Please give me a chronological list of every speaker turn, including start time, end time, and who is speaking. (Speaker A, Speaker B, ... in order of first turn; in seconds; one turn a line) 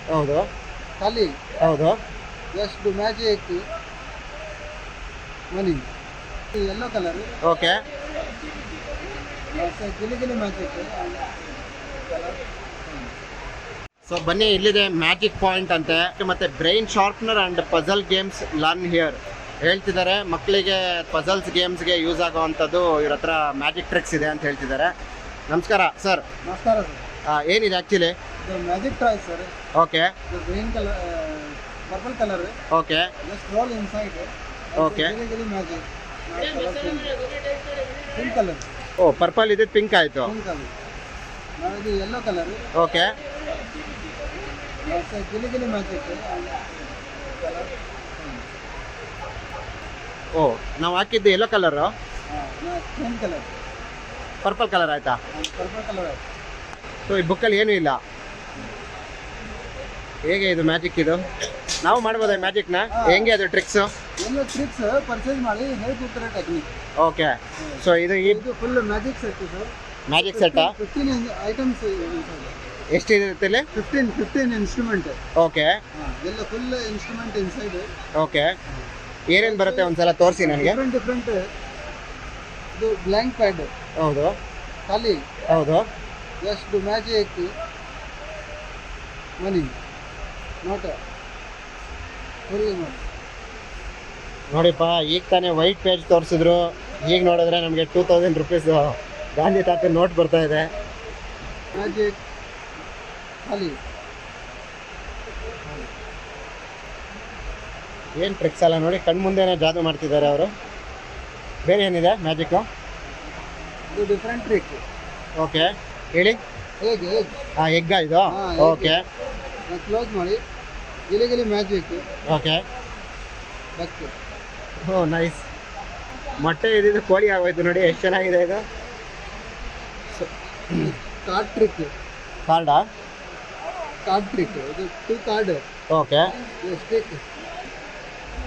Speaker A: 0.1-0.5
Speaker B: 1.0-1.3
Speaker A: 1.6-2.0
Speaker B: 2.5-3.6
Speaker B: 5.5-5.8
Speaker B: 6.5-7.3
Speaker A: 7.4-7.8
Speaker B: 9.5-13.1
Speaker A: 14.1-24.9
Speaker A: 25.5-26.2
Speaker B: 26.4-27.1
Speaker A: 27.3-28.1
Speaker B: 28.4-29.5
Speaker A: 29.8-30.1
Speaker B: 30.3-32.6
Speaker A: 32.7-33.1
Speaker B: 33.2-37.2
Speaker A: 34.8-35.2
Speaker B: 38.1-38.7
Speaker A: 39.0-40.3
Speaker B: 40.2-40.7
Speaker B: 41.6-42.7
Speaker A: 42.8-43.1
Speaker B: 44.8-48.4
Speaker A: 50.3-51.9
Speaker B: 52.3-53.6
Speaker A: 54.4-55.2
Speaker B: 55.3-56.2
Speaker A: 57.1-58.0
Speaker A: 60.2-61.2
Speaker A: 61.8-63.9
Speaker B: 61.9-63.3
Speaker B: 64.2-66.7
Speaker A: 67.0-68.4
Speaker B: 67.6-72.6
Speaker A: 70.1-70.8
Speaker A: 72.9-73.7
Speaker B: 73.7-75.2
Speaker A: 75.4-75.8
Speaker B: 76.0-77.9
Speaker A: 78.2-78.5
Speaker A: 79.3-80.8
Speaker B: 79.4-81.4
Speaker B: 82.8-83.7
Speaker A: 84.0-84.4
Speaker B: 84.9-85.2
Speaker A: 85.5-85.9
Speaker B: 86.4-87.5
Speaker B: 89.4-89.7
Speaker B: 90.6-91.0
Speaker B: 92.5-93.0
Speaker A: 94.5-100.7
Speaker B: 101.7-102.2
Speaker B: 103.5-103.8
Speaker A: 108.2-110.5
Speaker A: 111.7-112.7
Speaker B: 113.9-114.8
Speaker A: 115.4-116.4
Speaker B: 116.8-117.3
Speaker A: 117.6-119.0
Speaker B: 118.3-119.0
Speaker B: 119.7-120.4
Speaker B: 121.1-122.0
Speaker A: 122.3-122.6
Speaker B: 123.8-124.1
Speaker A: 124.9-125.5
Speaker A: 126.4-128.7
Speaker A: 130.1-130.9
Speaker B: 130.8-131.9
Speaker A: 132.5-132.8
Speaker B: 134.1-135.6
Speaker A: 135.9-136.3
Speaker B: 136.4-137.2